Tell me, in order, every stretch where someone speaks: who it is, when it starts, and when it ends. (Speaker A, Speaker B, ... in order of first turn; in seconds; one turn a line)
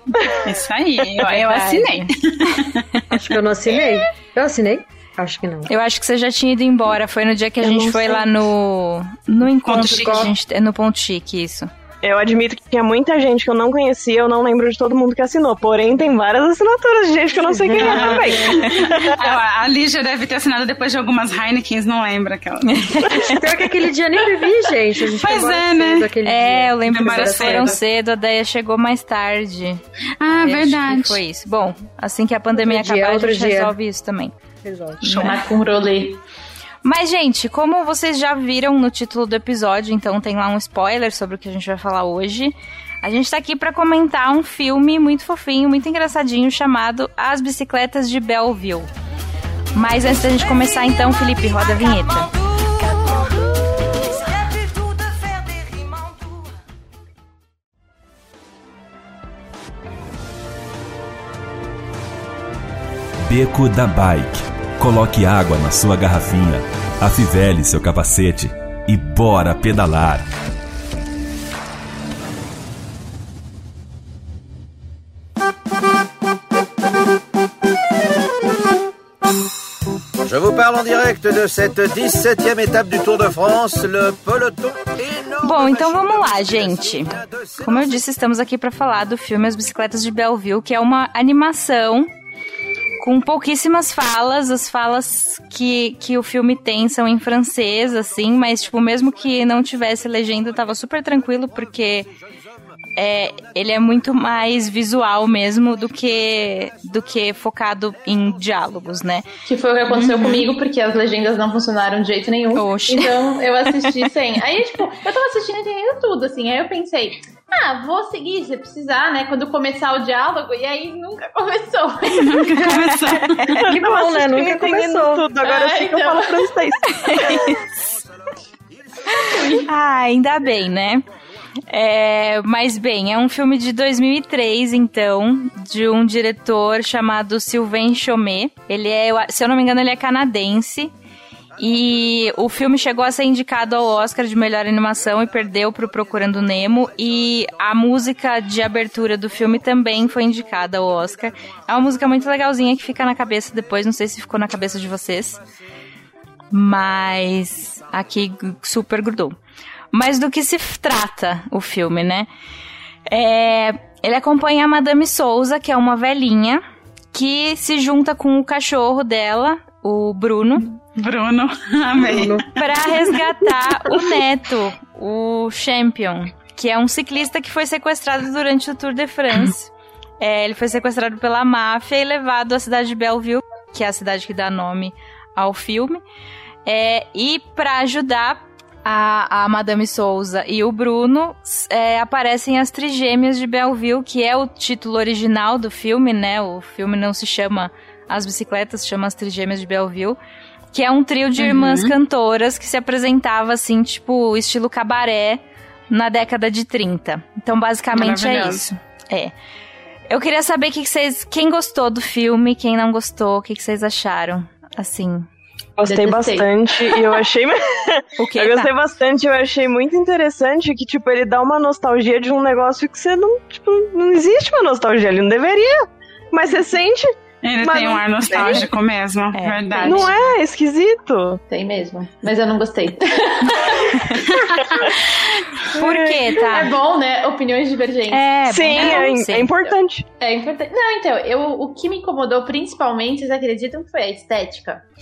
Speaker A: 0.4-2.8
Speaker B: 1.2-2.1
Speaker C: 3.1-5.7
Speaker B: 5.7-11.7
Speaker D: 7.6-8.2
Speaker C: 9.6-10.3
Speaker D: 12.0-19.2
Speaker C: 17.5-18.6
Speaker A: 17.8-23.0
Speaker B: 22.8-23.4
Speaker C: 23.1-27.8
Speaker A: 25.1-26.1
Speaker B: 26.2-34.3
Speaker A: 26.9-27.8
Speaker A: 30.2-31.2
Speaker C: 32.5-33.8
Speaker C: 34.6-35.2
Speaker A: 35.0-35.4
Speaker B: 35.0-35.3
Speaker E: 35.1-36.2
Speaker B: 36.8-48.9
Speaker B: 49.7-52.3
Speaker F: 63.3-70.3
Speaker G: 80.2-88.0
Speaker B: 85.4-92.1
Speaker B: 93.0-102.1
Speaker B: 103.0-109.2
Speaker E: 109.5-122.7
Speaker B: 109.9-110.4
Speaker B: 112.5-113.1
Speaker A: 122.1-123.6
Speaker C: 122.6-125.3
Speaker D: 123.6-127.5
Speaker E: 125.4-126.5
Speaker B: 127.0-127.6
Speaker B: 129.1-131.0
Speaker E: 129.2-129.6
Speaker B: 131.7-140.9
Speaker B: 141.6-155.4
Speaker B: 156.5-159.3
Speaker B: 159.9-162.3
Speaker B: 163.1-166.6
Speaker B: 167.1-170.8
Speaker A: 170.9-172.6
Speaker C: 172.0-172.4
Speaker B: 172.6-186.0
Speaker B: 186.7-200.2
Speaker B: 200.7-209.3
Speaker A: 201.4-201.9
Speaker A: 207.9-208.6
Speaker B: 210.1-215.3
Speaker D: 215.8-228.6
Speaker E: 215.8-217.0
Speaker B: 218.2-218.7
Speaker A: 227.4-230.1
Speaker B: 229.3-230.3
Speaker D: 229.8-231.4
Speaker E: 231.5-234.1
Speaker B: 233.7-234.2
Speaker A: 234.4-234.9
Speaker B: 235.7-236.7
Speaker D: 235.8-236.4
Speaker E: 236.4-244.8
Speaker B: 238.1-239.5
Speaker D: 238.5-240.1